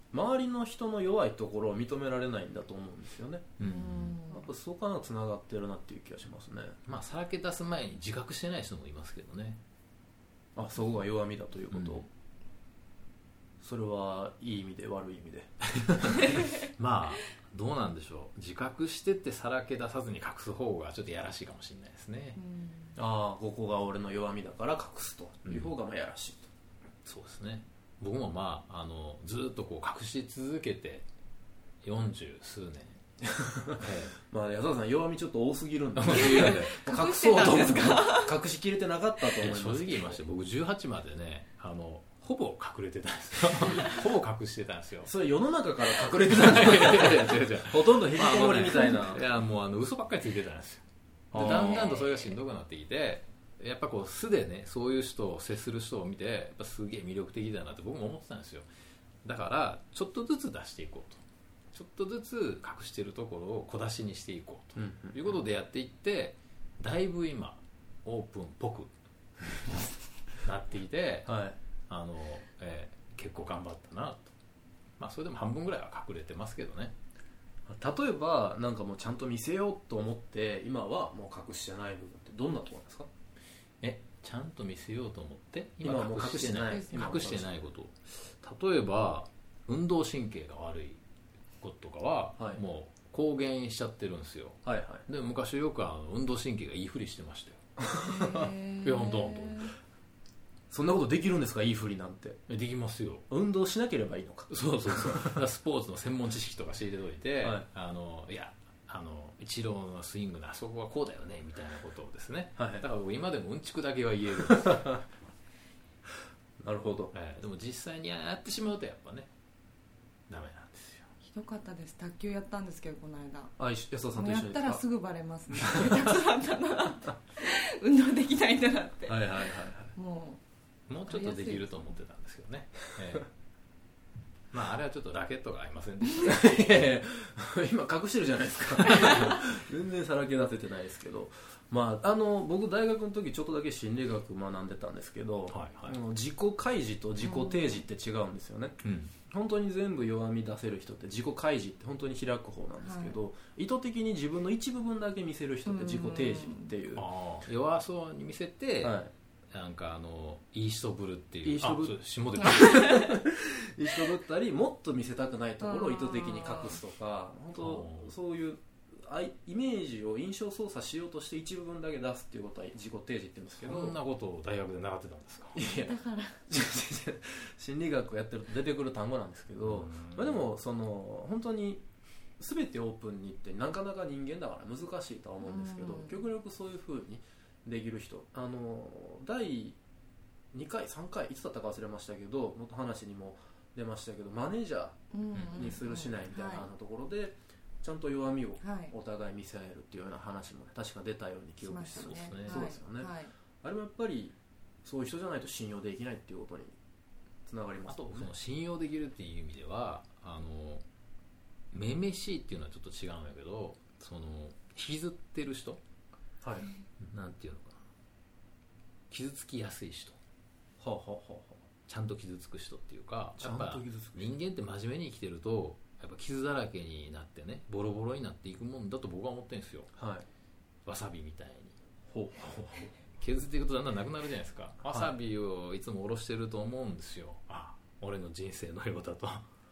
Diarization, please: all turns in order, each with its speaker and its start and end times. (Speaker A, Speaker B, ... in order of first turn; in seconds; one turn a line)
Speaker A: 0.1-3.5
Speaker B: 3.6-4.2
Speaker C: 3.6-4.5
Speaker A: 4.3-6.8
Speaker B: 6.8-9.6
Speaker A: 10.6-12.1
Speaker B: 11.7-12.1
Speaker A: 13.6-16.4
Speaker B: 16.5-22.4
Speaker C: 22.4-22.9
Speaker A: 22.9-26.5
Speaker B: 25.5-25.7
Speaker B: 27.0-31.1
Speaker B: 31.8-33.0
Speaker A: 33.3-40.2
Speaker B: 33.8-34.1
Speaker B: 36.0-36.9
Speaker C: 36.3-38.3
Speaker B: 39.4-45.1
Speaker A: 45.0-49.2
Speaker B: 46.0-58.7
Speaker A: 51.3-51.9
Speaker C: 51.4-52.3
Speaker B: 59.2-61.2
Speaker B: 61.7-68.9
Speaker A: 64.8-65.3
Speaker B: 69.4-69.8
Speaker B: 70.3-71.3
Speaker A: 71.2-71.6
Speaker B: 71.9-74.3
Speaker B: 75.0-76.9
Speaker A: 77.7-83.1
Speaker B: 83.8-91.0
Speaker A: 85.8-87.6
Speaker C: 86.6-87.2
Speaker B: 91.6-97.6
Speaker A: 94.6-95.0
Speaker A: 97.8-98.5
Speaker C: 97.9-99.7
Speaker B: 98.8-99.8
Speaker A: 100.7-102.4
Speaker B: 102.5-103.2
Speaker A: 103.3-105.4
Speaker B: 104.5-115.1
Speaker A: 112.6-112.8
Speaker A: 114.4-114.7
Speaker A: 116.6-117.1
Speaker B: 117.1-119.3
Speaker B: 120.3-121.1
Speaker C: 121.2-123.5
Speaker A: 123.6-124.8
Speaker C: 124.2-130.4
Speaker A: 125.5-126.0
Speaker A: 129.1-129.9
Speaker B: 130.9-133.3
Speaker C: 131.1-131.7
Speaker B: 134.5-136.4
Speaker A: 136.2-157.0
Speaker B: 145.5-146.0
Speaker C: 147.2-147.8
Speaker B: 148.8-149.1
Speaker C: 152.8-153.1
Speaker C: 155.7-156.7
Speaker B: 156.9-163.1
Speaker A: 158.8-159.1
Speaker A: 161.4-174.0
Speaker C: 162.7-163.0
Speaker C: 165.6-166.8
Speaker B: 167.6-168.1
Speaker B: 173.6-175.6
Speaker A: 175.5-181.8
Speaker C: 175.7-176.4
Speaker B: 179.6-180.4
Speaker A: 182.4-189.8
Speaker C: 185.4-186.2
Speaker A: 190.5-206.8
Speaker C: 195.1-196.7
Speaker B: 195.3-195.8
Speaker C: 198.6-198.9
Speaker C: 201.6-203.3
Speaker B: 201.9-202.7
Speaker A: 207.4-208.3
Speaker B: 207.9-210.8
Speaker B: 211.7-215.8
Speaker A: 216.4-216.7
Speaker B: 217.0-217.8
Speaker B: 219.1-220.2
Speaker A: 220.8-221.6
Speaker B: 221.9-229.9
Speaker A: 223.4-224.3
Speaker A: 229.9-230.2
Speaker B: 230.8-231.7
Speaker A: 232.1-232.9
Speaker B: 233.2-239.4
Speaker A: 234.9-235.1